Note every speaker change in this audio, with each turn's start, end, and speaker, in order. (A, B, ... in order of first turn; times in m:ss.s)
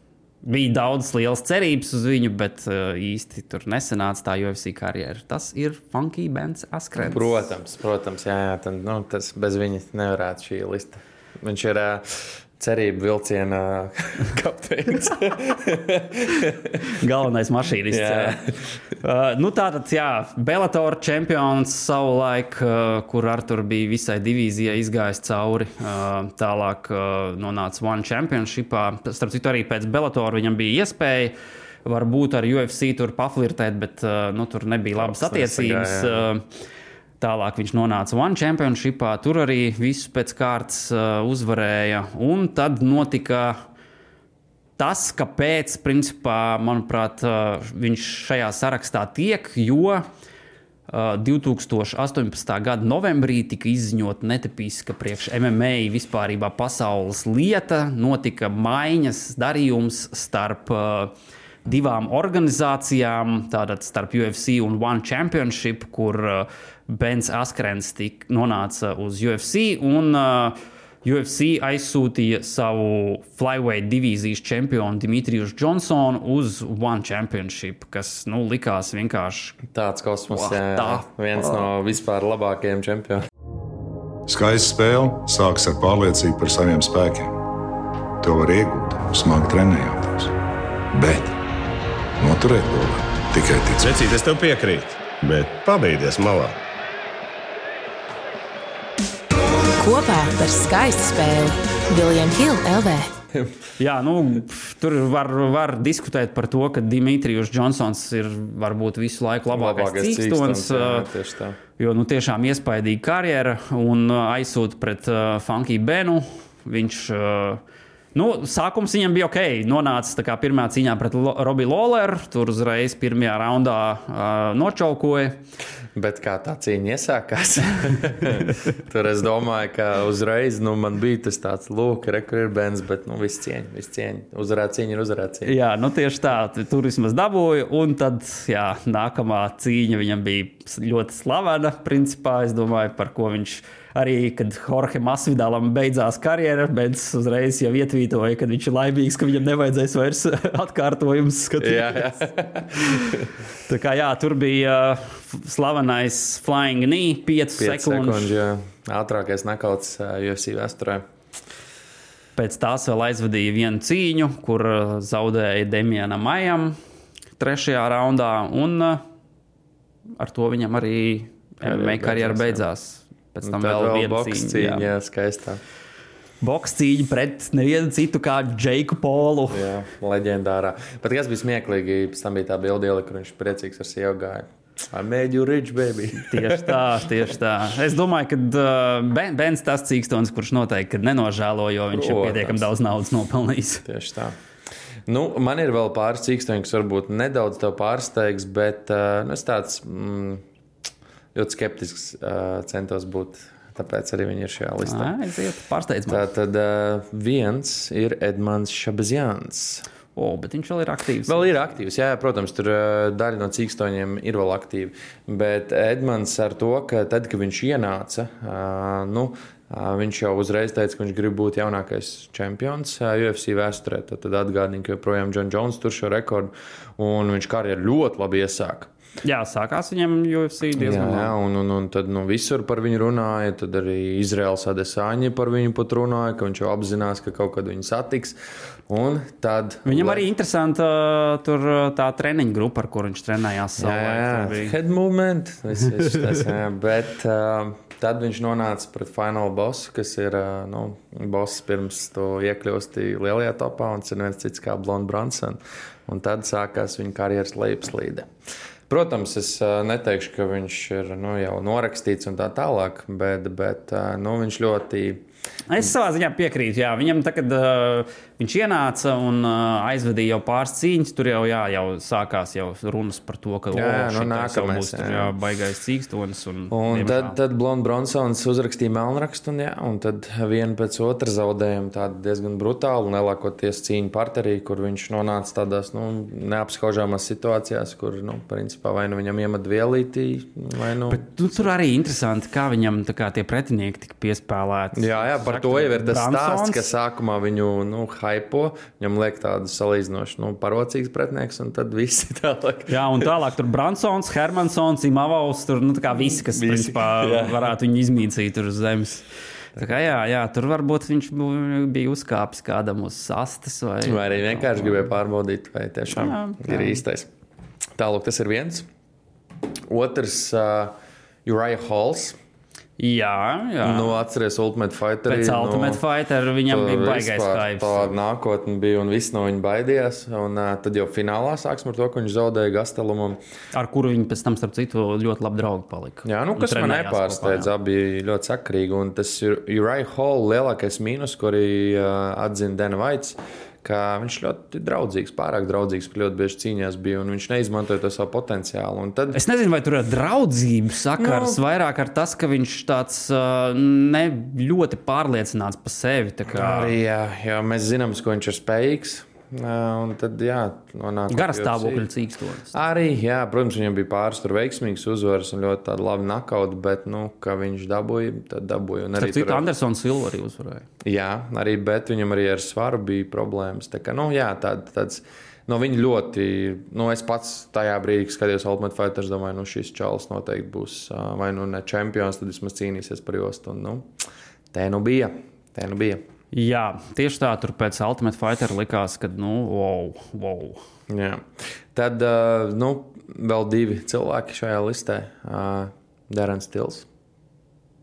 0:00.4-0:07.5 A
0:07.0-0:16.8 B
0:16.9-0:18.4 A
0:17.9-0:18.6 B
0:19.0-0:31.3 A
0:31.8-0:36.4 A
0:35.0-0:36.3 B
0:37.2-0:43.6 A
0:44.8-0:50.0 A
0:50.9-1:01.1 A
1:01.6-1:19.6 A
1:19.7-1:23.2 B
1:20.3-1:21.7 A
1:24.3-1:27.3 C
1:28.2-1:30.3 C
1:30.9-1:31.3 C
1:32.2-1:33.9 C
1:33.8-1:36.5 D
1:39.8-1:43.1 E
1:43.8-1:51.1 A
1:49.5-1:51.6 B
1:51.8-1:57.6 A
1:58.1-2:05.4 A
2:06.0-2:15.5 B
2:15.4-2:32.1 A
2:31.6-2:33.2 B
2:32.8-2:33.1 A
2:33.7-2:38.3 A
2:37.6-2:41.0 B
2:42.4-2:46.8 A
2:47.4-2:49.0 A
2:50.2-2:54.9 A
2:51.6-2:52.6 B
2:53.4-2:55.6 B
2:56.4-2:59.6 A
2:59.5-3:07.0 B
3:06.3-3:13.8 A
3:11.9-3:12.6 B
3:13.8-3:14.4 B
3:15.1-3:20.4 B
3:21.3-3:25.1 B
3:24.8-3:26.3 A
3:26.1-3:29.8 B
3:30.2-3:31.5 A
3:31.2-3:48.9 B
3:49.2-3:51.3 A
3:50.8-3:58.4 B
3:58.9-4:00.2 B
3:59.8-4:04.8 A
4:03.8-4:18.3 B
4:18.9-4:25.2 B
4:25.7-4:37.4 A
4:33.7-4:35.3 B
4:36.7-4:51.2 B
4:51.1-4:56.9 A
4:54.9-5:03.3 B
5:02.9-5:09.2 A
5:06.1-5:07.7 B
5:09.8-5:10.0 B
5:09.8-5:15.1 A
5:14.0-5:17.3 B
5:16.1-5:17.0 A
5:18.0-5:18.9 B
5:19.9-5:20.9 B
5:21.4-5:22.4 B
5:23.0-5:24.2 A
5:23.8-5:26.0 B
5:25.3-5:28.1 A
5:26.7-5:33.4 B
5:33.7-5:37.7 A
5:36.2-5:49.4 B
5:49.3-5:56.9 A
5:51.2-5:51.6 B
5:56.5-6:02.0 B
6:01.3-6:02.8 A
6:02.7-6:09.6 B
6:09.2-6:10.9 A
6:11.0-6:24.1 B
6:24.7-6:26.2 B
6:26.5-6:30.8 A
6:31.1-6:37.1 B